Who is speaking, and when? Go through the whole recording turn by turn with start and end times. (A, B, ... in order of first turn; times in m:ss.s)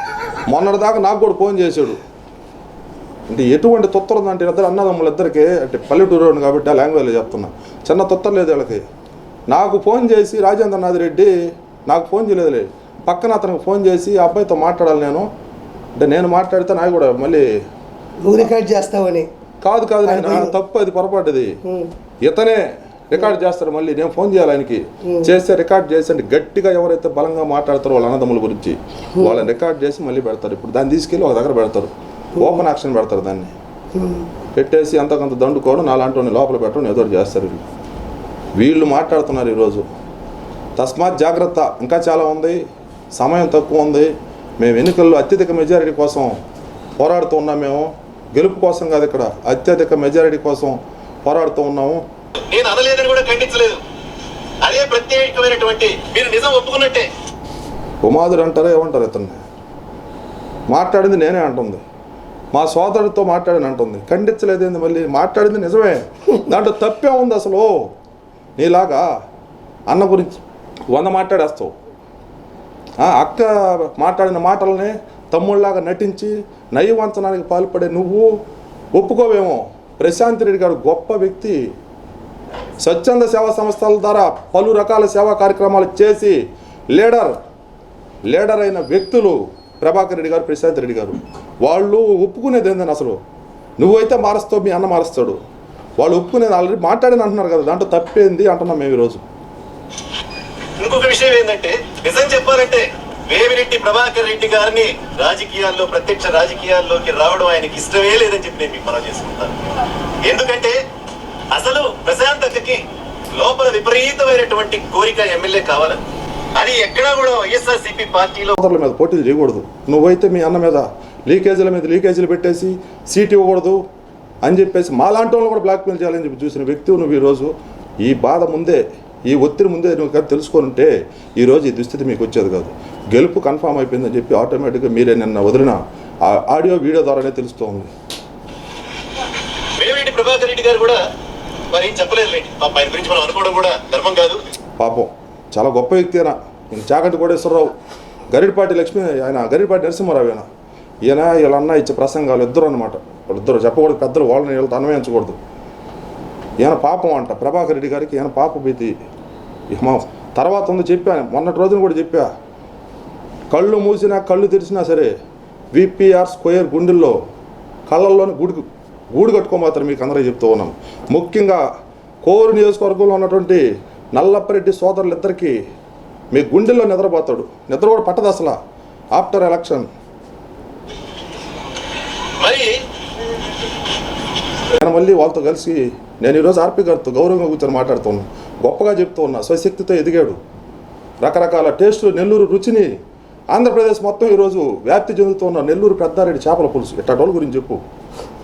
0:00.5-0:02.0 A
0:03.3-0:08.8 A
0:09.5-0:11.3 A
0:11.9-0:15.3 A
0:16.0-0:17.5 A
0:18.2-0:19.3 B
0:19.6-0:21.6 A
0:20.0-0:20.5 B
0:21.6-0:21.9 B
0:22.2-0:33.5 A
0:34.0-0:34.2 B
0:34.6-0:37.6 A
0:38.6-0:39.8 A
0:40.8-0:42.6 A
0:43.2-0:46.4 A
0:47.0-0:52.0 A
0:52.4-0:53.8 C
0:54.6-0:57.1 C
0:58.0-0:59.4 A
1:00.7-1:01.8 A
1:02.5-1:07.7 A
1:08.6-1:09.1 A
1:09.9-1:11.7 A
1:13.0-1:18.4 A
1:19.0-1:21.6 A
1:22.8-1:26.4 A
1:27.0-1:27.4 A
1:28.3-1:33.2 A
1:33.8-1:35.4 A
1:36.0-1:39.2 A
1:40.8-1:49.6 C
1:50.3-1:50.8 C
1:51.5-1:52.8 C
1:53.4-1:56.0 C
1:56.6-1:58.6 C
1:58.6-2:03.8 A
2:04.4-2:17.9 A
2:19.8-2:21.0 C
2:21.7-2:24.4 C
2:24.8-2:27.8 A
2:28.3-2:30.5 A
2:31.0-2:35.4 A
2:36.6-2:38.9 A
2:39.7-2:42.3 A
2:43.5-2:45.1 A
2:45.7-2:47.2 A
2:47.9-2:51.6 A
2:52.2-2:53.6 A
2:54.2-2:55.6 A
2:56.3-2:58.6 A
2:59.2-2:59.9 A
3:02.4-3:02.8 C
3:04.7-3:10.4 A
3:11.2-3:12.9 A
3:13.5-3:17.8 A